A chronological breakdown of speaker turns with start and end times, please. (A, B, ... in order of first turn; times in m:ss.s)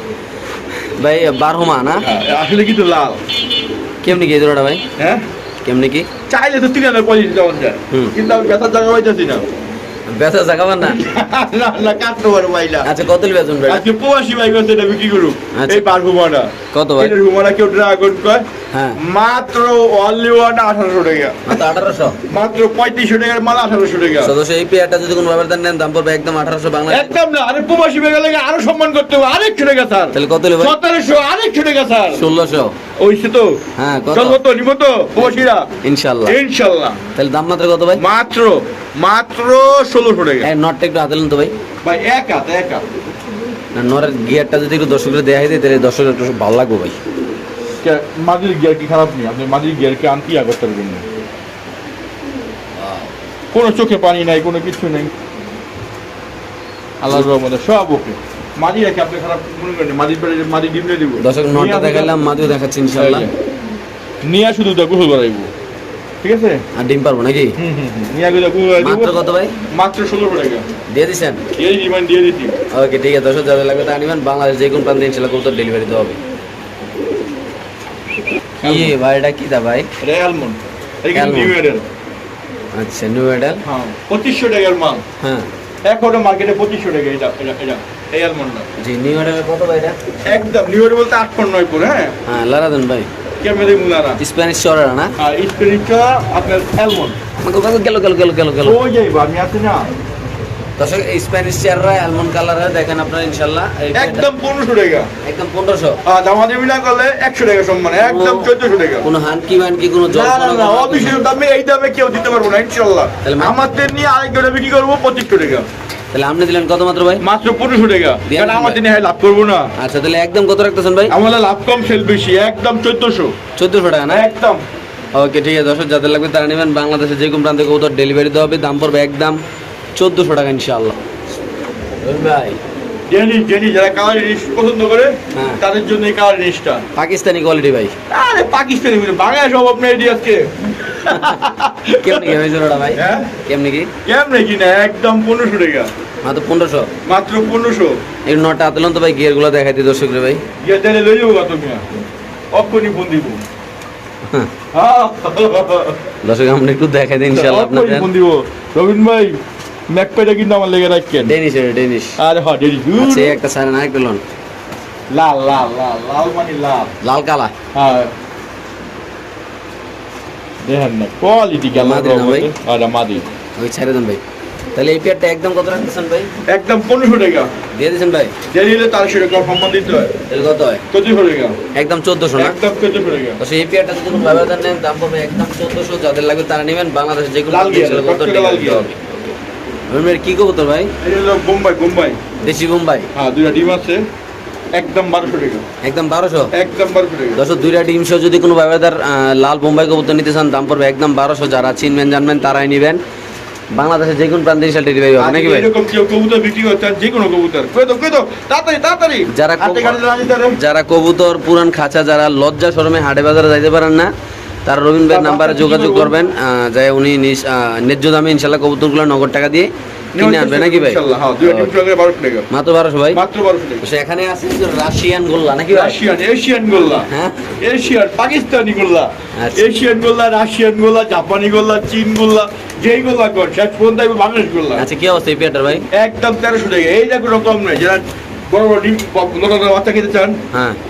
0:01.0-0:02.0 A
0:02.0-0:03.2 B
0:04.0-0:04.8 A
0:05.0-0:05.2 B
0:05.6-0:06.1 A
0:06.3-0:09.4 B
0:10.1-0:11.0 A
0:10.8-0:12.9 B
0:12.8-0:13.8 A
0:13.7-0:18.4 B
0:15.5-0:15.8 A
0:16.7-0:17.2 A
0:18.7-0:19.0 A
0:19.0-0:21.6 B
0:21.4-0:22.2 A
0:22.3-0:24.3 B
0:24.2-0:27.1 A
0:26.9-0:32.3 B
0:30.1-0:30.8 A
0:32.1-0:32.7 A
0:33.0-0:33.6 B
0:33.8-0:34.4 A
0:34.1-0:35.7 B
0:35.2-0:36.4 A
0:36.2-0:37.0 B
0:37.2-0:38.0 A
0:38.0-0:40.5 B
0:40.4-0:41.5 A
0:41.8-0:42.8 B
0:43.8-0:47.0 A
0:47.8-0:51.0 B
0:52.8-0:53.1 A
0:53.5-0:55.1 B
0:57.0-1:02.2 B
1:01.2-1:03.3 A
1:02.9-1:03.3 B
1:04.2-1:05.5 B
1:06.2-1:06.6 B
1:06.8-1:07.6 A
1:07.6-1:09.2 B
1:08.8-1:09.5 A
1:09.7-1:10.6 B
1:10.9-1:11.4 A
1:11.6-1:12.5 B
1:12.7-1:16.2 A
1:18.6-1:19.9 A
1:18.6-1:18.9 B
1:20.0-1:21.8 B
1:21.1-1:21.5 A
1:22.8-1:23.6 A
1:23.6-1:25.0 B
1:25.2-1:25.5 A
1:25.8-1:28.7 B
1:28.8-1:30.0 A
1:30.3-1:32.1 B
1:32.3-1:33.1 A
1:33.4-1:34.2 B
1:34.2-1:35.1 A
1:35.2-1:37.2 B
1:37.4-1:38.8 A
1:38.6-1:39.9 B
1:40.8-1:44.3 A
1:43.9-1:45.1 B
1:45.2-1:46.0 A
1:46.0-1:49.1 B
1:48.0-1:48.5 A
1:49.0-1:51.2 A
1:50.1-1:55.6 B
1:53.2-1:53.6 A
1:56.1-1:57.2 A
1:57.2-1:59.7 B
1:58.2-1:58.8 A
1:59.8-2:01.1 A
2:01.1-2:03.3 B
2:03.6-2:04.2 A
2:04.1-2:04.6 B
2:05.1-2:09.4 A
2:09.9-2:11.0 A
2:12.0-2:12.6 A
2:13.1-2:16.8 B
2:15.3-2:15.6 A
2:16.9-2:17.9 A
2:18.1-2:22.4 B
2:21.1-2:21.4 A
2:22.0-2:23.9 A
2:22.9-2:23.3 B
2:24.0-2:25.9 B
2:26.2-2:26.9 A
2:27.0-2:28.0 B
2:28.2-2:30.4 A
2:30.6-2:31.8 B
2:32.5-2:33.4 B
2:34.7-2:36.0 B
2:36.2-2:38.1 A
2:37.3-2:39.4 B
2:39.9-2:41.3 B
2:41.2-2:42.2 A
2:42.2-2:43.4 B
2:43.0-2:44.2 A
2:45.1-2:46.9 B
2:47.0-2:47.5 A
2:47.7-2:48.1 B
2:50.6-2:53.2 B
2:51.7-2:52.5 A
2:53.6-2:54.2 A
2:54.8-2:56.3 A
2:56.5-2:57.5 B
2:57.8-2:58.3 A
2:58.5-3:00.1 B
3:00.3-3:00.8 A
3:00.9-3:01.6 B
3:01.8-3:02.6 A
3:02.4-3:03.4 B
3:03.4-3:09.3 A
3:07.5-3:08.9 B
3:09.9-3:10.9 A
3:11.0-3:12.2 B
3:12.4-3:13.1 A
3:13.1-3:14.0 B
3:14.7-3:15.6 B
3:15.8-3:16.5 A
3:16.5-3:17.4 B
3:17.4-3:23.0 A
3:23.7-3:25.7 A
3:25.2-3:30.6 B
3:29.3-3:30.0 A
3:30.5-3:34.1 A
3:34.6-3:41.7 A
3:35.1-3:36.2 B
3:40.2-3:42.5 B
3:42.5-3:43.2 A
3:43.1-3:43.8 B
3:43.8-3:46.0 A
3:45.7-3:47.1 B
3:47.1-3:47.5 A
3:47.6-3:54.8 B
3:49.4-3:49.6 A
3:54.8-3:55.8 A
3:55.9-4:00.4 B
4:00.5-4:00.8 A